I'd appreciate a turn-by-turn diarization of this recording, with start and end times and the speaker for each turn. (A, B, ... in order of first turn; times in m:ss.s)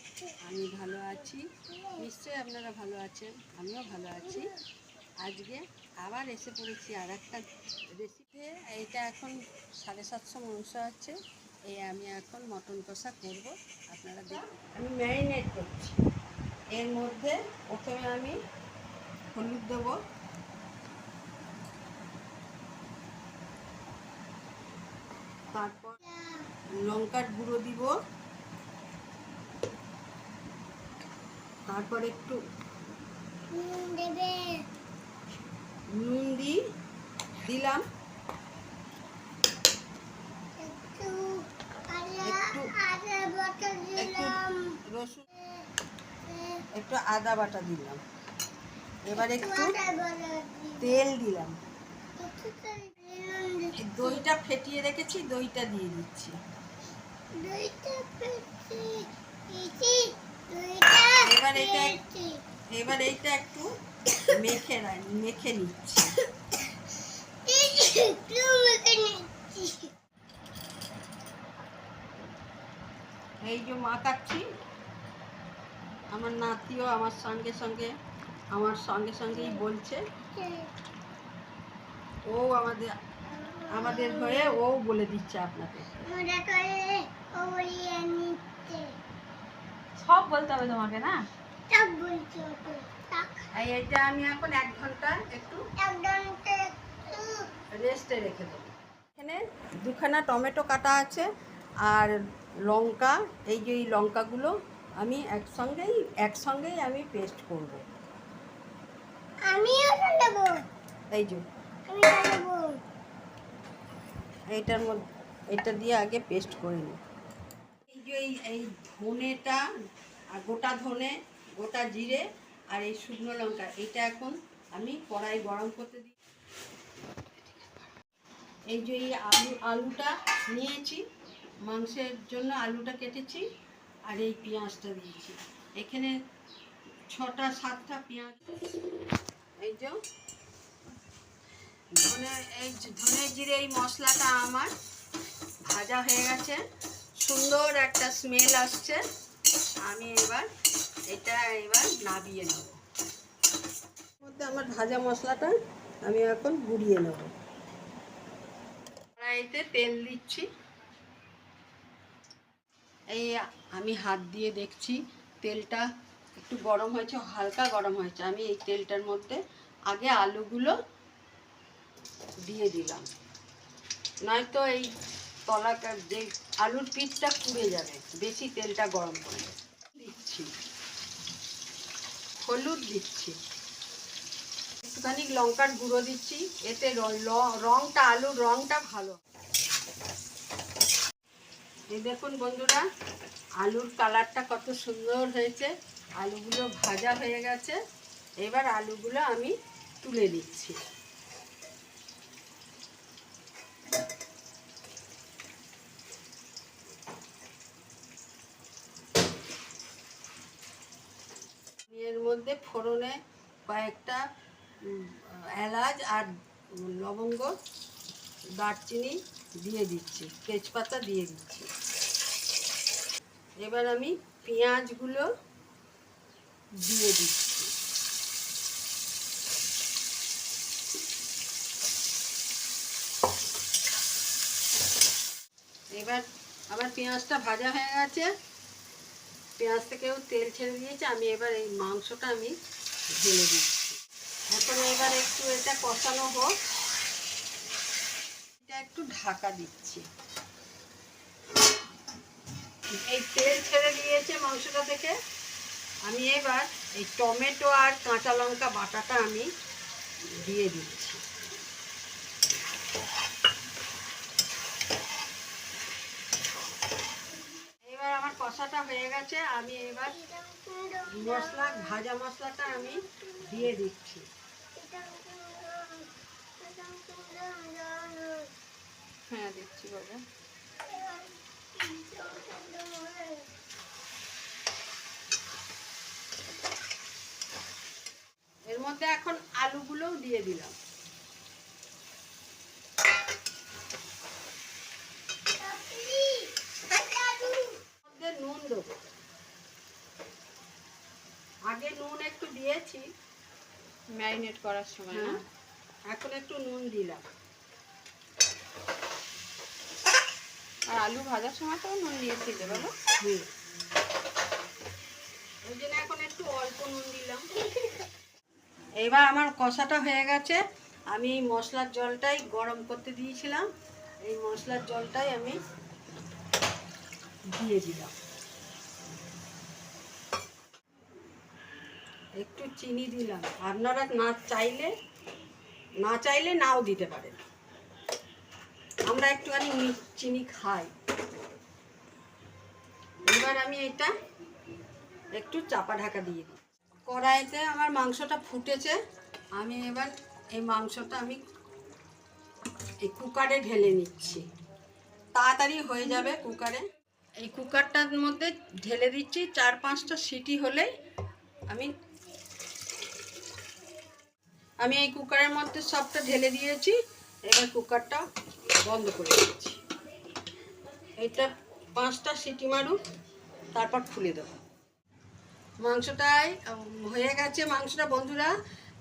0:00.4-0:01.4 A
0:02.0-0:04.5 A
0:05.2-0:07.4 A
0:08.0-0:11.2 A
0:11.7-0:16.0 A
0:16.7-0:18.4 A
0:19.3-0:20.0 A
0:25.5-0:26.0 A
0:26.0-0:26.5 B
0:26.8-0:27.9 A
0:31.7-0:32.4 A
0:33.5-0:34.6 B
0:35.9-0:36.6 A
0:37.4-0:37.8 A
0:40.6-0:44.8 B
0:42.2-0:42.7 A
0:44.0-0:45.2 A
0:45.3-0:45.7 B
0:46.2-0:46.6 B
0:46.7-0:48.0 A
0:49.0-0:49.8 A
0:49.1-0:51.0 B
0:50.8-0:51.6 A
0:52.2-0:54.2 B
0:53.8-0:56.4 A
0:57.3-1:02.4 B
1:01.2-1:02.0 A
1:02.7-1:03.7 A
1:04.2-1:06.2 A
1:07.4-1:09.9 B
1:13.4-1:14.4 A
1:16.1-1:17.9 A
1:18.5-1:20.0 A
1:19.3-1:19.6 B
1:20.3-1:20.7 B
1:22.2-1:22.9 A
1:23.3-1:24.6 B
1:23.7-1:26.0 A
1:26.0-1:28.9 B
1:30.0-1:31.2 C
1:31.7-1:33.5 B
1:33.5-1:35.6 A
1:35.8-1:37.5 B
1:37.7-1:41.3 A
1:41.8-1:42.1 A
1:42.6-1:47.8 A
1:49.4-1:50.6 B
1:51.1-1:51.4 A
1:51.9-1:52.8 B
1:54.5-1:55.0 A
1:55.5-1:57.0 A
1:57.9-1:59.6 A
2:00.3-2:06.1 A
2:08.7-2:11.0 A
2:11.6-2:13.4 A
2:14.1-2:16.1 A
2:17.1-2:18.4 A
2:19.6-2:20.0 A
2:22.0-2:24.7 A
2:25.7-2:26.6 A
2:27.2-2:29.0 A
2:29.8-2:30.5 A
2:31.1-2:32.8 A
2:34.2-2:37.3 A
2:39.2-2:40.5 A
2:43.1-2:50.8 A
2:52.4-2:53.1 A
2:54.2-2:54.9 A
2:55.4-3:00.5 A
3:02.4-3:03.4 A
3:04.8-3:09.2 A
3:11.9-3:12.8 A
3:13.6-3:17.8 A
3:18.4-3:20.8 A
3:31.9-3:33.2 A
3:33.7-3:34.2 A
3:34.8-3:37.5 A
3:38.6-3:41.7 A
3:43.6-3:45.3 A
3:46.8-3:47.7 A
3:56.0-3:58.3 A
3:59.6-4:02.5 A
4:03.1-4:04.0 A
4:04.5-4:06.5 A
4:08.6-4:10.0 A
4:12.9-4:15.2 A
4:16.0-4:19.5 A
4:20.4-4:21.2 A
4:27.9-4:30.2 A
4:30.0-4:32.0 B
4:31.1-4:34.2 A
4:32.8-4:33.6 B
4:34.8-4:36.1 B
4:36.6-4:38.5 B
4:39.3-4:40.2 C
4:40.8-4:43.5 B
4:48.7-4:50.7 A
4:55.6-4:57.8 B
4:58.0-4:58.9 A
5:01.6-5:03.1 A
5:04.1-5:05.4 C
5:05.1-5:05.4 A
5:06.1-5:07.2 A
5:10.9-5:12.9 C
5:12.6-5:13.4 A
5:15.6-5:17.5 A
5:19.0-5:20.6 A
5:21.1-5:23.6 A
5:24.2-5:25.6 A
5:27.5-5:28.1 A
5:32.4-5:34.9 A
5:36.0-5:37.4 A
5:39.1-5:40.9 A
5:43.3-5:44.1 A
5:45.4-5:49.0 A
5:49.6-5:51.4 A
5:53.0-5:54.4 A
5:55.4-5:56.9 A
5:57.4-6:00.9 A
6:04.8-6:08.2 A
6:08.8-6:09.8 A
6:11.2-6:13.0 A
6:13.7-6:14.5 A
6:15.8-6:18.5 A